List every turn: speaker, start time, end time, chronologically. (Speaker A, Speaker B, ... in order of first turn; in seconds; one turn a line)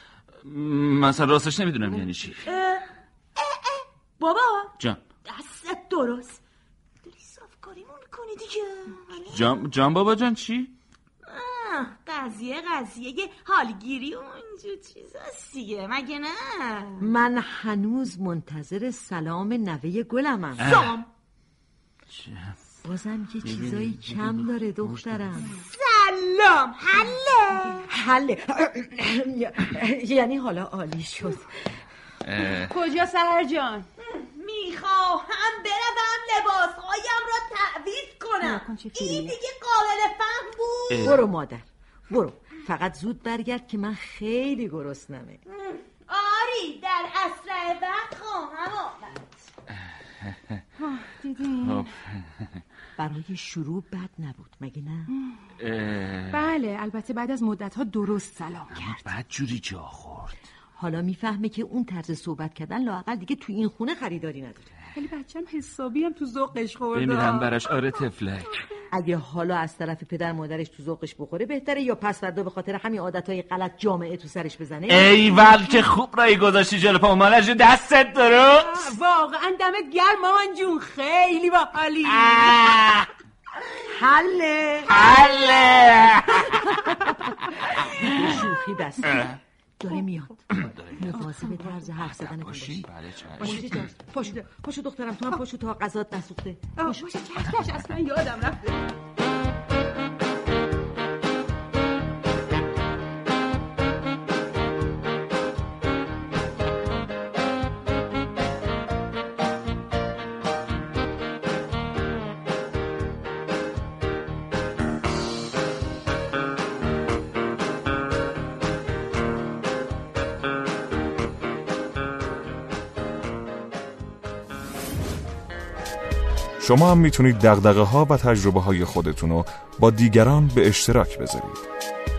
Speaker A: 0.4-2.5
Speaker B: 2.5-2.8
Speaker B: 3.4-4.7
Speaker B: 5.3-6.4
Speaker B: 7.0-9.5
Speaker A: 9.3-10.7
Speaker B: 11.2-17.0
Speaker C: 17.0-20.7
Speaker B: 20.6-21.1
Speaker A: 20.6-21.0
Speaker A: 22.1-22.6
Speaker C: 22.8-25.6
Speaker A: 23.4-25.5
Speaker B: 25.5-27.9
Speaker C: 27.8-31.8
Speaker A: 32.2-32.8
Speaker D: 32.4-33.9
Speaker B: 34.0-41.2
Speaker D: 38.4-39.4
Speaker A: 40.9-41.2
Speaker C: 41.0-45.4
Speaker B: 45.5-49.5
Speaker A: 50.2-50.6
Speaker D: 50.8-51.9
Speaker A: 51.6-52.5
Speaker C: 53.0-55.1
Speaker D: 55.1-55.4
Speaker A: 55.6-56.5
Speaker D: 56.3-59.0
Speaker A: 58.7-60.4
Speaker C: 60.8-64.7
Speaker D: 65.0-67.5
Speaker A: 66.9-68.6
Speaker C: 68.9-75.4
Speaker A: 74.9-79.0
Speaker D: 78.5-82.5
Speaker A: 82.1-83.1
Speaker C: 83.9-85.0
Speaker A: 84.9-86.9
Speaker A: 87.4-88.4
Speaker C: 87.7-97.1
Speaker A: 89.0-89.4
Speaker A: 90.5-93.9
Speaker D: 93.4-93.9
Speaker D: 96.8-98.9
Speaker E: 126.6-131.7